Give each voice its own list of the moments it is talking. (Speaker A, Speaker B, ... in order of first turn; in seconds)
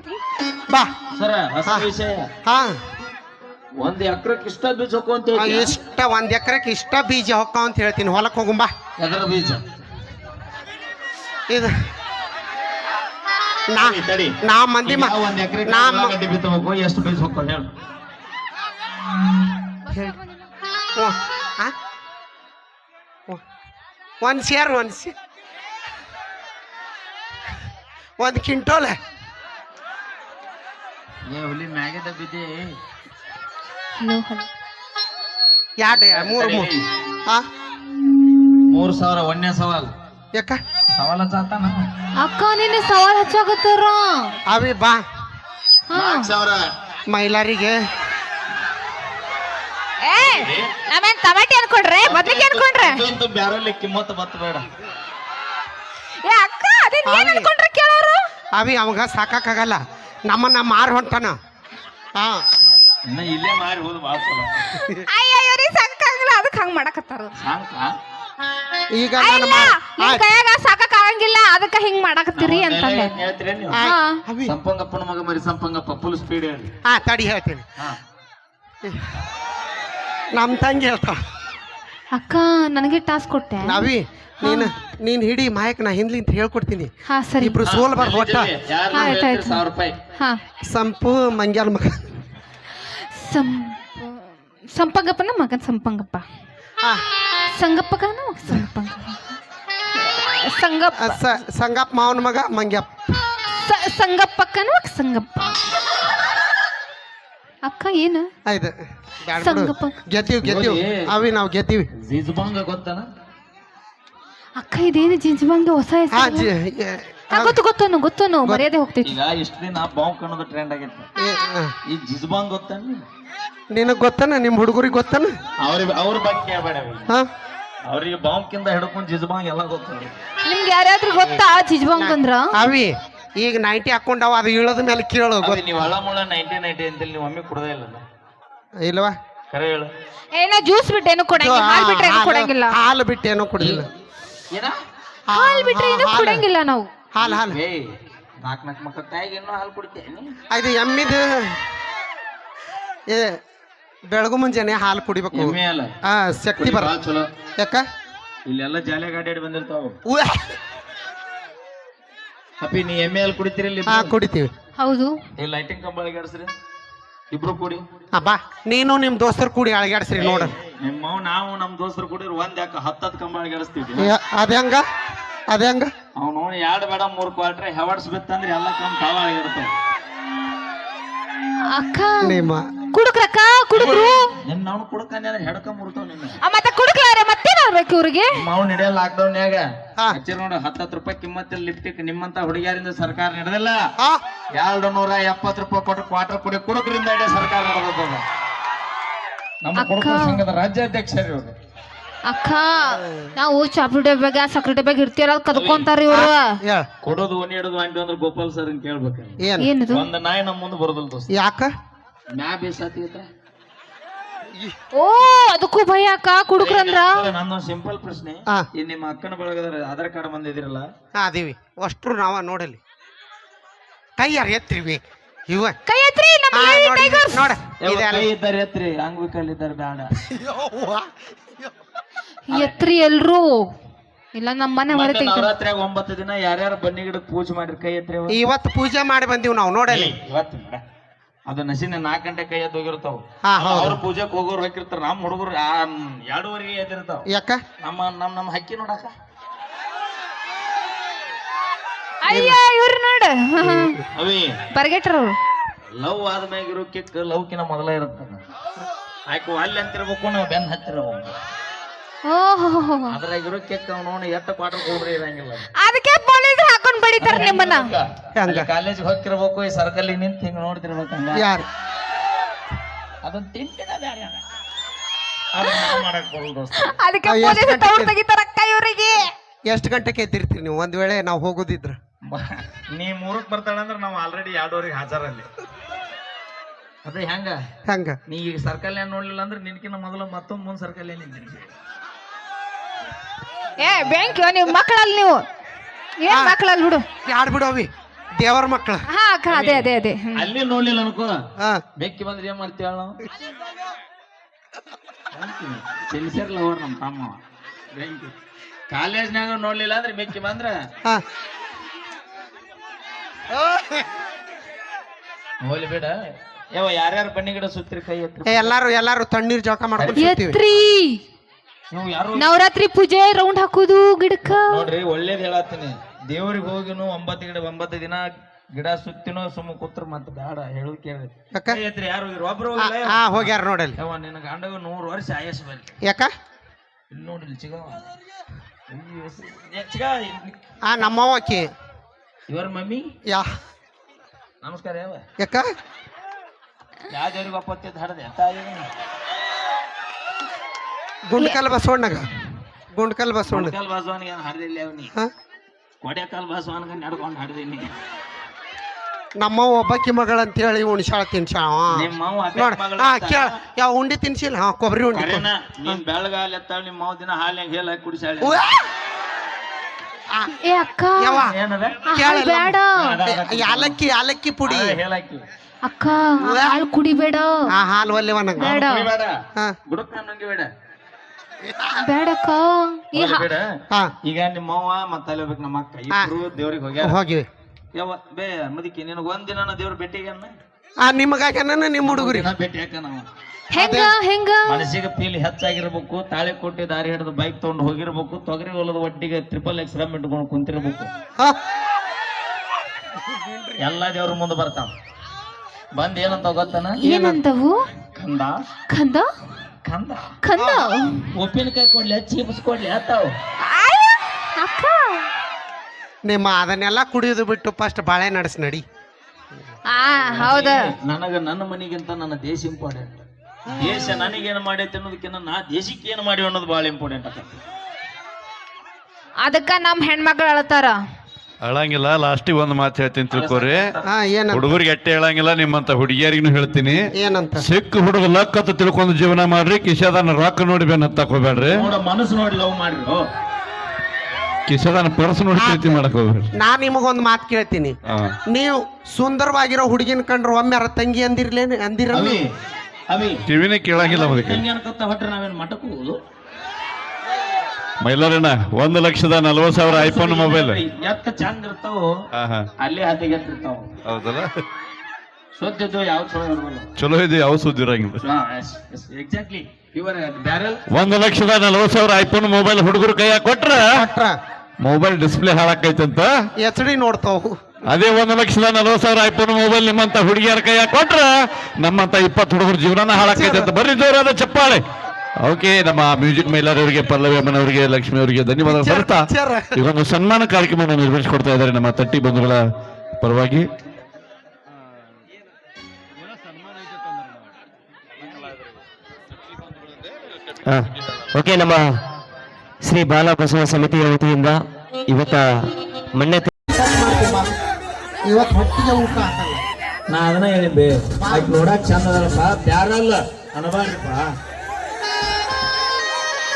Speaker A: 1.1-2.3, 3.8-5.8, 9.0-9.8, 13.8-17.7, 31.3-32.7, 35.9-36.8, 38.7-39.9, 40.9-41.8, 45.9-46.7, 50.2-50.7, 52.0-54.7, 63.1-64.7, 67.4-67.8, 72.3-73.8, 74.4-76.7, 87.6-90.0, 110.4-111.0, 112.0-113.0, 119.0-121.1, 121.9-123.0, 125.6-127.1, 127.9-130.2, 135.4-138.0, 139.5-139.9, 143.6-143.9, 147.2-147.8, 148.4-150.3, 155.3-155.9, 156.6-157.3, 158.4-160.0, 162.6-164.2, 165.4-166.5, 167.3-167.8, 170.2-174.1, 176.2-179.7, 183.7-186.4, 188.3-193.8, 194.5-198.2, 199.6-201.5, 205.5-205.9, 207.0-211.3, 212.3-213.3, 216.6-220.8, 227.8-230.1, 232.5-232.8, 234.9-238.4, 239.9-240.8, 241.5-247.2, 247.8-249.1, 254.1-254.6, 255.9-258.4, 259.3-261.3, 263.1-265.7, 267.2-271.4, 273.2-274.4, 275.5-276.8, 282.3-285.4, 287.0-287.6, 288.3-291.7, 299.5-301.3, 302.0-303.2, 305.3-307.4, 307.9-308.3, 308.9-310.7, 315.6-316.1, 316.7-318.8, 320.0-320.2, 321.9-322.5, 324.4-335.9, 337.1-338.1, 338.9-341.1, 342.5-343.1, 344.6-345.2, 347.1-348.9, 353.5-355.1, 356.0-357.9, 361.9-363.5, 365.1-368.6, 371.4-372.0, 373.0-374.0, 374.6-375.4, 378.6-379.3, 379.9-380.7, 383.1-383.6, 384.2-387.2, 387.9-390.5, 392.0-393.3, 394.6-401.1, 403.8-404.9, 405.9-407.0, 408.1-408.6, 409.8-410.3, 411.3-413.3, 420.3-427.6, 433.3-434.0, 441.7-443.2, 452.1-452.5, 453.1-453.4, 454.0-456.2, 459.9-462.1, 462.8-463.9, 465.6-466.9, 468.2-470.8, 496.8-497.2, 510.1-514.3
Speaker B: 2.4-2.8, 5.3-8.7, 13.7-16.2, 20.9-21.7, 24.2-25.1, 28.2-29.0, 35.8-36.7, 40.3-40.6, 44.5-45.0, 47.1-47.8, 57.1-57.5, 58.5-61.4, 62.1-62.4, 64.8-65.0, 68.9-70.2, 73.7-74.5, 76.8-77.6, 78.8-79.1, 80.3-81.2, 83.6-88.5, 90.7-92.0, 101.0-102.9, 108.5-111.9, 116.1-117.6, 121.2-121.7, 123.7-125.3, 131.2-135.6, 138.8-139.1, 141.3-143.9, 145.3-146.4, 147.1-147.6, 150.5-151.6, 154.1-156.9, 157.6-157.8, 160.1-160.5, 163.9-164.5, 168.1-170.5, 174.0-174.8, 175.5-175.9, 182.2-182.7, 206.1-206.9, 209.4-209.7, 211.3-211.7, 221.2-222.8, 224.2-225.8, 226.5-228.3, 230.2-231.1, 238.3-240.1, 243.5-244.0, 247.3-247.6, 252.3-252.6, 253.6-254.0, 268.4-268.7, 271.3-271.6, 277.2-278.1, 279.7-282.0, 287.9-288.2, 296.3-296.6, 297.2-299.0, 318.4-320.6, 331.5-331.8, 332.8-334.0, 336.0-336.3, 340.9-341.7, 345.4-345.7, 351.3-352.3, 352.9-353.7, 359.4-366.0, 368.4-368.8, 371.2-371.5, 372.1-375.0, 376.4-376.8, 377.7-378.7, 387.0-387.4, 391.0-392.5, 393.8-394.1, 407.0-407.4, 410.6-410.9, 416.2-418.8, 434.1-434.7, 437.1-437.6, 445.6-445.9, 446.6-447.9, 448.5-452.4, 473.9-474.4, 476.6-477.6, 483.2-483.7, 488.6-489.7, 506.7-507.5, 508.2-509.6, 511.2-511.6
Speaker C: 34.0-34.5, 42.2-44.4, 45.9-46.3, 50.0-53.0, 56.2-58.2, 65.1-67.3, 69.2-73.2, 73.8-74.2, 82.1-83.9, 84.4-84.7, 87.1-87.6, 88.9-89.6, 93.1-96.2, 97.5-99.3, 99.9-101.2, 103.5-105.6, 107.6-108.2, 109.4-109.9, 114.6-116.5, 117.3-119.2, 130.4-132.5, 140.3-142.8, 145.3-146.9, 164.8-165.2, 181.7-184.3, 186.4-188.4, 199.8-200.4, 202.2-206.5, 209.6-210.0, 214.9-217.3, 225.8-227.5, 232.5-233.7, 234.3-235.5, 252.2-254.0, 254.7-255.3, 262.2-263.1, 265.8-267.9, 276.8-279.3, 293.8-295.4, 296.2-297.0, 299.1-300.4, 320.2-321.2, 322.3-324.8, 370.6-371.4, 372.1-373.1, 375.8-377.5, 378.6-379.1, 382.0-383.4, 393.7-394.8, 407.0-407.8, 408.9-409.3, 410.4-411.3, 413.6-415.3, 419.9-420.8, 423.8-424.3, 429.4-431.0
Speaker D: 431.6-433.9, 434.5-436.9, 437.6-441.8, 444.7-446.5, 448.1-448.3, 453.5-454.6, 458.0-460.8, 462.4-462.7, 464.1-464.5, 467.0-468.2, 470.9-474.0, 474.8-476.3, 477.9-484.8, 485.4-492.6, 493.2-493.7
Speaker E: 500.6-502.0, 502.8-506.5